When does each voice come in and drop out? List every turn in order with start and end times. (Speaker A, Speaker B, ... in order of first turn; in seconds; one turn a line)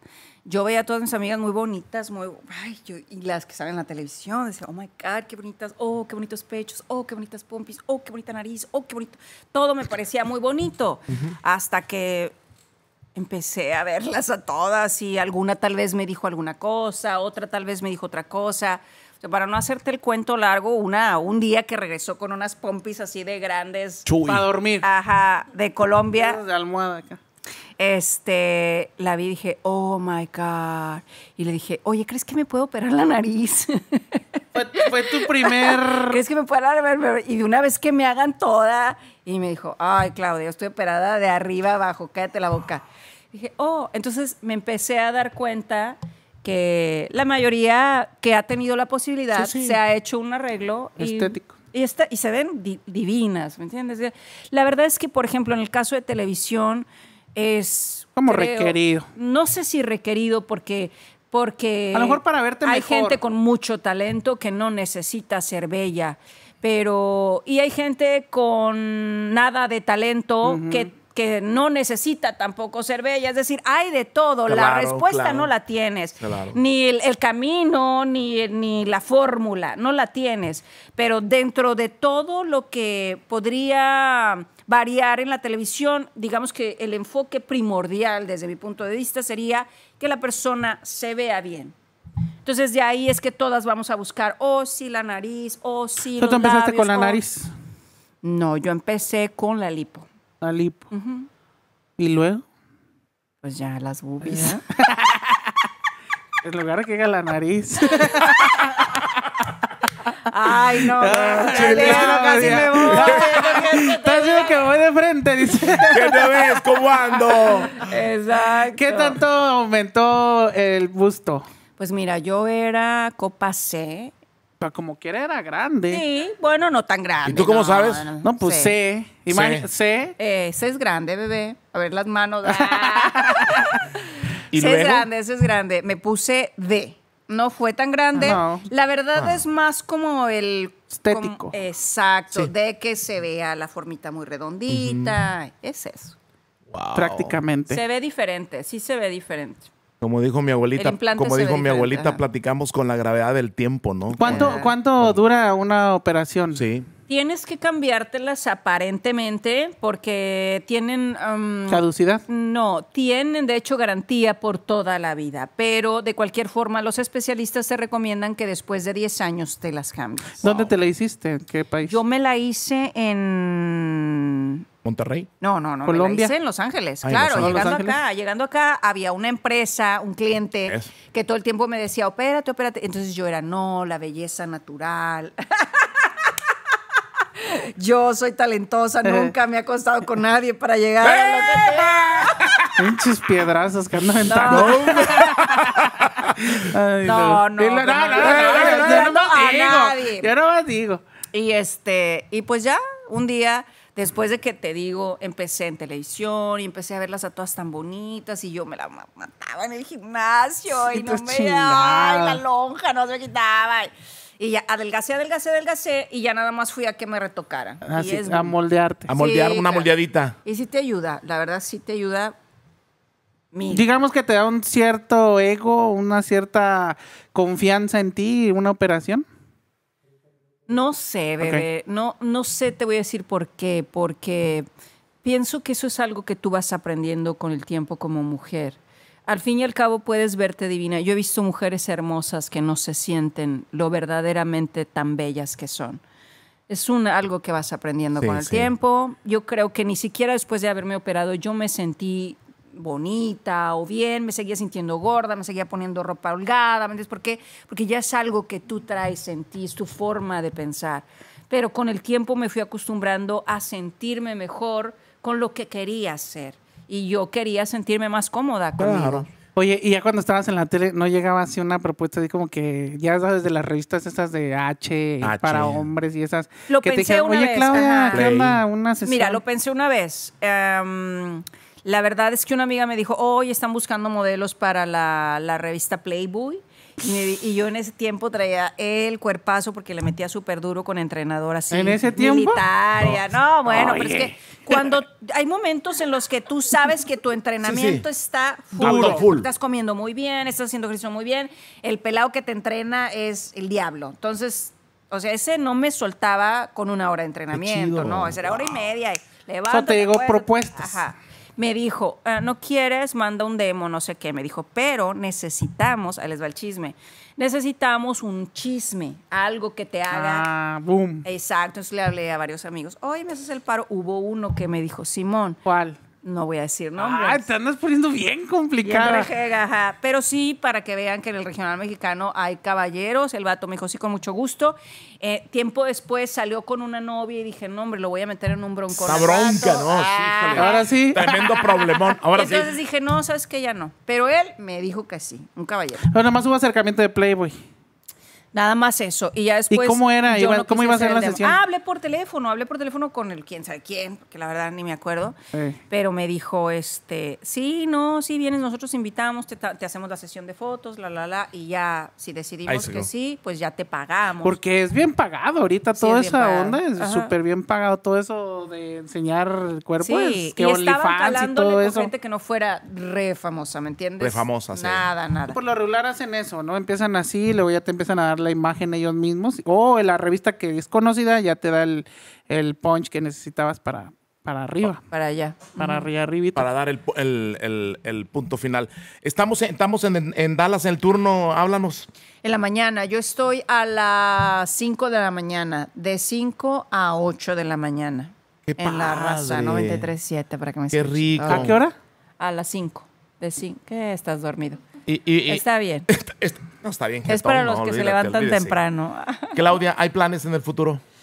Speaker A: 0.5-12.3
Speaker A: 13.2-24.1
Speaker B: 24.1-24.4
Speaker C: 24.2-24.9
Speaker A: 24.8-26.4
Speaker C: 26.1-27.2
Speaker A: 27.8-91.7
Speaker C: 34.5-36.2
Speaker C: 49.3-49.8
Speaker C: 51.0-51.5
Speaker C: 58.2-59.0
Speaker C: 61.9-63.2
Speaker C: 70.4-70.9
Speaker B: 74.5-75.5
Speaker B: 76.2-76.6
Speaker A: 92.4-97.2
Speaker C: 96.2-97.5
Speaker A: 98.2-100.1
Speaker C: 100.4-100.9
Speaker A: 100.9-101.3
Speaker C: 102.0-102.4
Speaker A: 103.4-104.6
Speaker C: 104.3-105.6
Speaker C: 106.4-109.4
Speaker A: 110.2-114.7
Speaker C: 110.5-116.4
Speaker B: 111.5-113.4
Speaker B: 115.8-117.9
Speaker A: 117.7-119.2
Speaker C: 118.7-121.5
Speaker A: 121.8-124.1
Speaker C: 124.6-126.0
Speaker A: 125.9-128.8
Speaker B: 127.2-128.1
Speaker C: 128.2-130.2
Speaker B: 129.3-129.7
Speaker A: 130.2-146.1
Speaker C: 132.4-133.8
Speaker B: 134.5-135.1
Speaker C: 138.1-138.7
Speaker B: 139.1-139.4
Speaker C: 141.0-141.5
Speaker B: 144.7-145.1
Speaker B: 146.7-147.4
Speaker C: 146.9-147.8
Speaker A: 147.7-149.7
Speaker B: 150.0-155.2
Speaker A: 150.8-152.2
Speaker C: 154.1-156.6
Speaker A: 154.2-154.7
Speaker B: 156.5-156.9
Speaker A: 157.1-170.6
Speaker C: 161.7-162.2
Speaker C: 170.4-172.0
Speaker A: 171.9-174.6
Speaker B: 174.8-175.3
Speaker A: 175.4-186.3
Speaker C: 175.8-176.3
Speaker B: 177.0-177.7
Speaker C: 177.3-178.0
Speaker A: 187.4-192.7
Speaker C: 189.0-189.3
Speaker B: 191.0-192.7
Speaker C: 192.8-201.0
Speaker A: 194.2-195.3
Speaker B: 194.5-196.7
Speaker A: 197.0-200.3
Speaker B: 198.1-199.1
Speaker A: 201.3-218.5
Speaker C: 210.9-212.4
Speaker C: 217.8-219.1
Speaker B: 219.1-220.3
Speaker A: 219.1-219.9
Speaker A: 220.4-222.3
Speaker A: 223.5-223.8
Speaker C: 223.7-229.2
Speaker A: 230.7-234.7
Speaker A: 235.2-246.0
Speaker A: 246.7-269.3
Speaker B: 248.2-248.7
Speaker B: 268.8-269.2
Speaker C: 269.6-279.4
Speaker B: 275.2-275.9
Speaker A: 276.7-278.3
Speaker B: 278.1-278.6
Speaker A: 279.0-320.5
Speaker C: 291.7-292.6
Speaker C: 293.7-294.9
Speaker B: 297.6-298.0
Speaker C: 298.8-299.2
Speaker B: 298.8-299.5
Speaker B: 307.5-308.8
Speaker C: 309.7-311.0
Speaker C: 320.1-321.2
Speaker A: 321.2-325.6
Speaker C: 325.6-326.0
Speaker A: 326.2-327.5
Speaker C: 327.0-329.3
Speaker A: 328.8-340.9
Speaker B: 338.9-342.7
Speaker C: 340.5-342.2
Speaker A: 342.3-346.1
Speaker C: 346.1-347.6
Speaker A: 348.5-355.4
Speaker C: 349.7-351.6
Speaker C: 355.5-355.8
Speaker A: 355.9-364.6
Speaker B: 362.7-363.1
Speaker C: 364.4-372.1
Speaker A: 366.0-367.3
Speaker A: 370.0-375.6
Speaker B: 374.2-375.1
Speaker C: 375.5-385.0
Speaker A: 385.1-386.0
Speaker C: 385.8-386.7
Speaker B: 386.5-392.1
Speaker A: 392.4-401.7
Speaker B: 398.7-400.1
Speaker B: 400.9-401.8
Speaker C: 401.4-401.9
Speaker A: 402.4-404.8
Speaker B: 405.1-408.8
Speaker A: 405.5-406.1
Speaker A: 407.3-409.6
Speaker B: 409.5-411.0